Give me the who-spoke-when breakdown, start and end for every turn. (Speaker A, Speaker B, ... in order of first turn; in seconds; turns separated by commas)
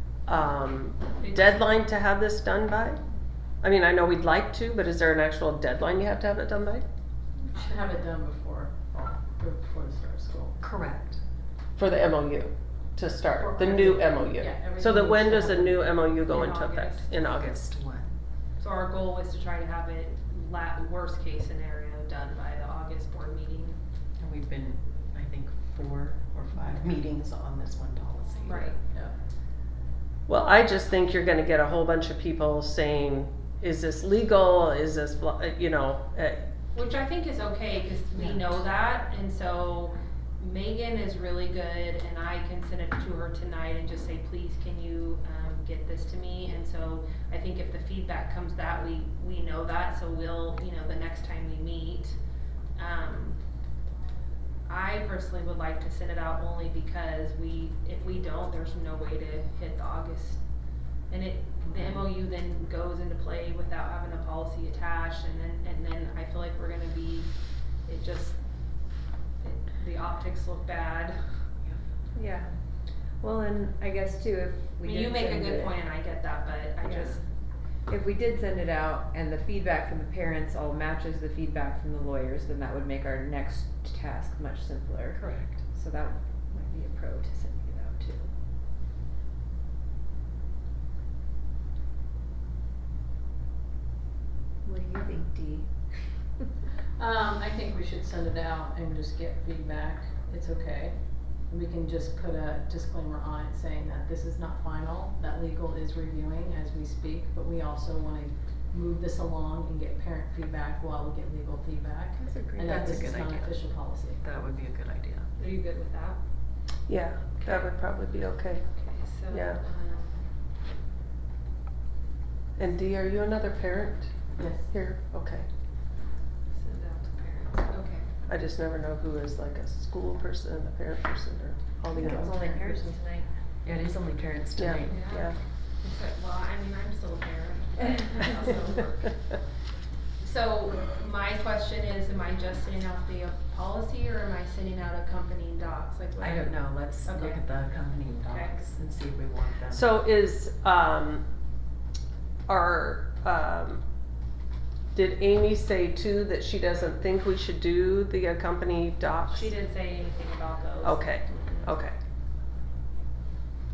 Speaker A: 0.2-3.0, Speaker B: 1.2-1.6, Speaker A: 3.6-6.8, Speaker C: 7.5-10.6, Speaker D: 10.6-11.2, Speaker A: 11.8-17.6, Speaker C: 13.3-15.9, Speaker B: 16.2-17.3, Speaker D: 17.3-18.1, Speaker B: 18.6-23.8, Speaker D: 24.2-28.7, Speaker B: 28.4-28.8, Speaker A: 30.3-36.5, Speaker B: 36.7-52.2, Speaker B: 52.8-53.4, Speaker B: 54.6-60.4, Speaker B: 61.1-67.3, Speaker D: 61.7-62.1, Speaker B: 67.8-68.4, Speaker B: 69.4-71.2, Speaker E: 72.1-72.5, Speaker E: 73.2-75.8, Speaker B: 74.8-77.2, Speaker E: 76.8-77.2, Speaker E: 77.9-88.3, Speaker D: 85.1-85.7, Speaker E: 94.6-96.3, Speaker C: 97.0-114.2, Speaker E: 112.2-113.2, Speaker D: 112.2-115.3, Speaker B: 115.4-116.2, Speaker A: 116.9-118.6, Speaker B: 117.4-117.7, Speaker B: 118.7-120.3, Speaker A: 119.3-119.6, Speaker A: 122.6-125.5, Speaker C: 124.3-124.7, Speaker B: 126.5-128.1, Speaker A: 128.3-132.4, Speaker E: 131.9-133.3, Speaker C: 132.5-132.8, Speaker D: 133.6-135.1, Speaker A: 134.5-135.3, Speaker B: 134.8-139.4, Speaker B: 140.2-147.4, Speaker D: 146.2-149.8, Speaker B: 148.2-148.6, Speaker A: 149.7-151.2, Speaker A: 152.5-153.8, Speaker A: 154.9-159.5, Speaker B: 159.3-161.8, Speaker A: 160.8-161.9